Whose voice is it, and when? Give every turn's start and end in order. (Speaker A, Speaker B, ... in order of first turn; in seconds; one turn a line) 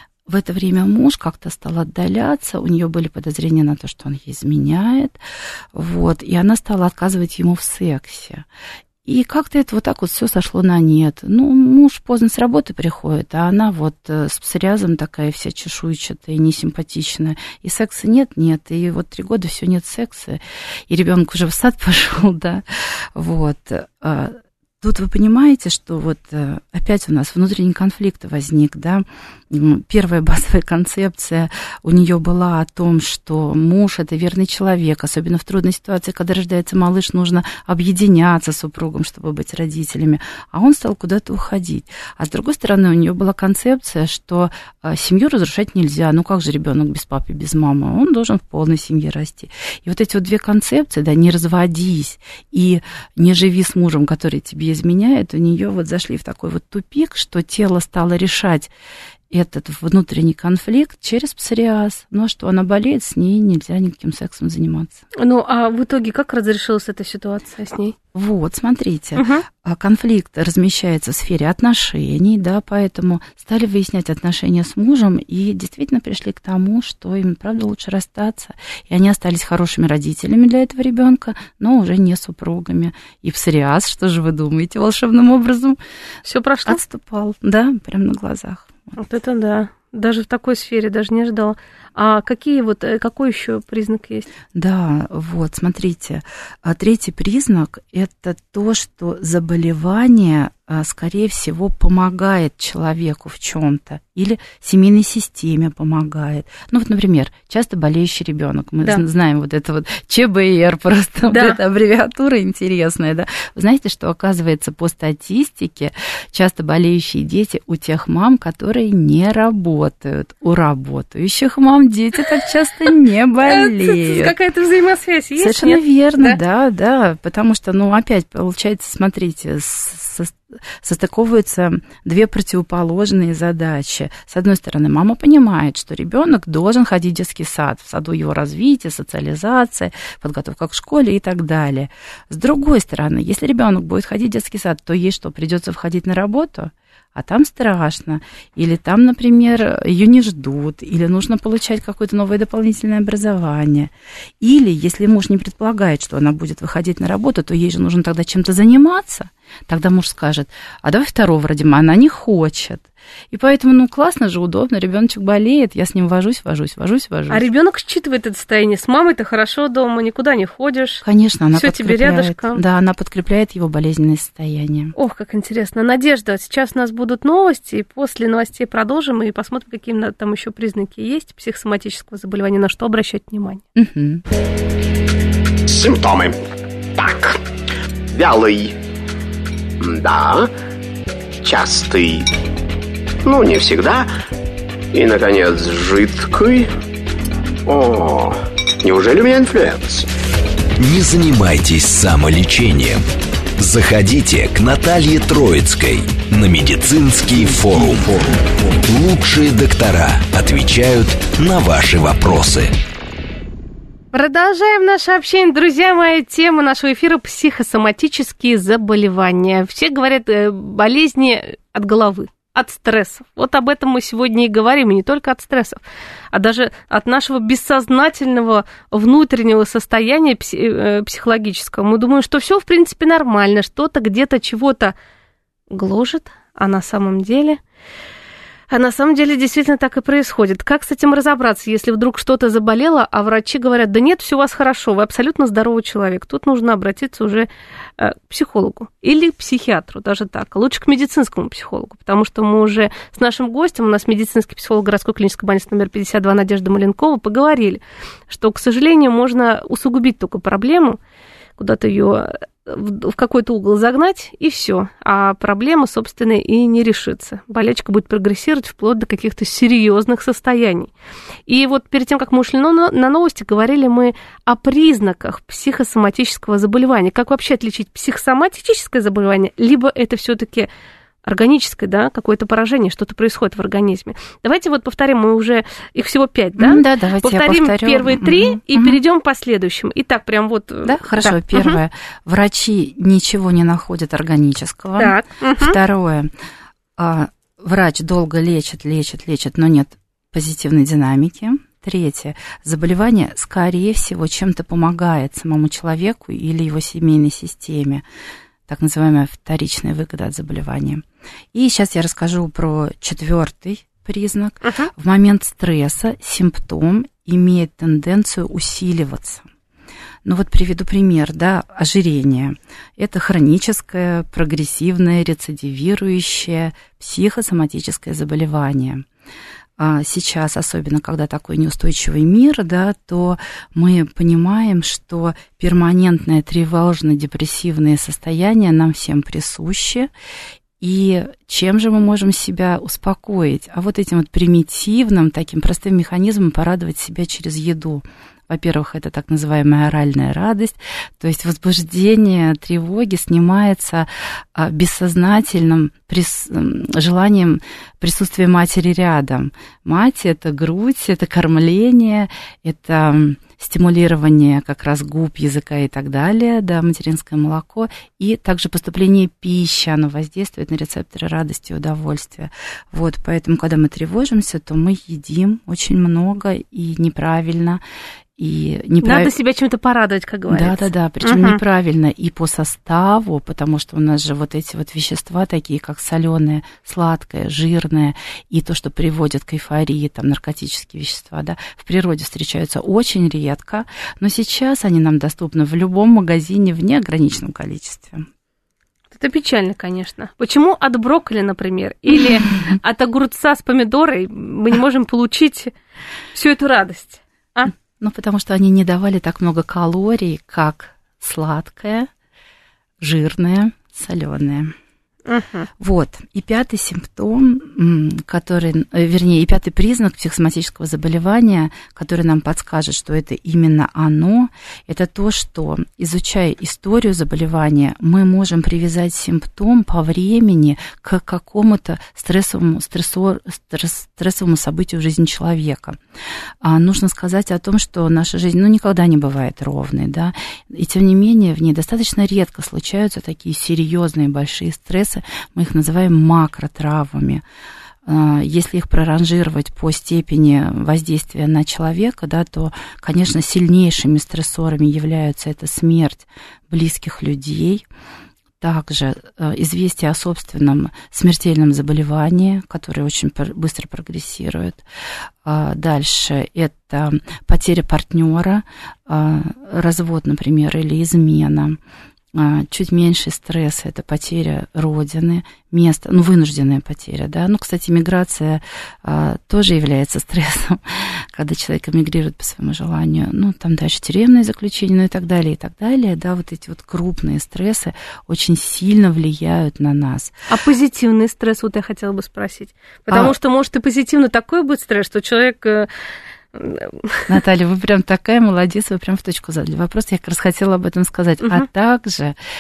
Speaker A: 0.3-5.2
Speaker A: 5.7-8.5
Speaker A: 9.1-58.7
Speaker A: 59.3-65.0
Speaker B: 65.2-68.0
Speaker A: 68.1-85.8
Speaker B: 69.2-69.5
Speaker B: 86.2-86.8
Speaker A: 86.7-88.9
Speaker B: 89.0-94.3
Speaker A: 94.5-124.3
Speaker B: 111.3-111.6
Speaker B: 123.4-126.4
Speaker A: 125.4-167.4
Speaker B: 167.3-172.6
Speaker A: 171.0-174.9
Speaker B: 174.9-183.6
Speaker A: 183.8-184.2
Speaker C: 185.7-186.4
Speaker C: 186.9-187.4
Speaker C: 188.1-188.8
Speaker C: 189.8-190.5
Speaker C: 191.4-192.3
Speaker C: 193.2-194.1
Speaker C: 194.9-196.7
Speaker C: 197.7-200.1
Speaker D: 200.8-203.1
Speaker D: 203.6-212.7
Speaker B: 214.1-225.8
Speaker B: 226.3-234.9
Speaker B: 235.7-237.6
Speaker B: 238.7-261.0
Speaker B: 261.6-270.9
Speaker B: 271.5-280.7
Speaker B: 281.2-291.8
Speaker A: 286.6-289.0
Speaker A: 290.9-296.3
Speaker B: 295.0-295.8
Speaker A: 297.0-308.0
Speaker A: 308.7-319.5
Speaker B: 314.6-314.9
Speaker A: 320.2-329.1
Speaker A: 329.8-340.1
Speaker A: 340.8-377.8
Speaker A: 378.4-379.3
Speaker B: 379.0-381.6
Speaker A: 380.5-398.3
Speaker B: 399.1-405.7
Speaker B: 406.3-407.7
Speaker A: 407.8-412.1
Speaker A: 413.0-414.7
Speaker B: 415.3-415.7
Speaker A: 415.8-436.0
Speaker A: 436.6-447.4
Speaker A: 448.1-457.9
Speaker A: 458.6-464.8
Speaker A: 465.4-471.8
Speaker A: 472.3-490.3
Speaker B: 490.5-495.9
Speaker A: 493.1-493.4
Speaker B: 496.5-497.3
Speaker A: 497.3-502.4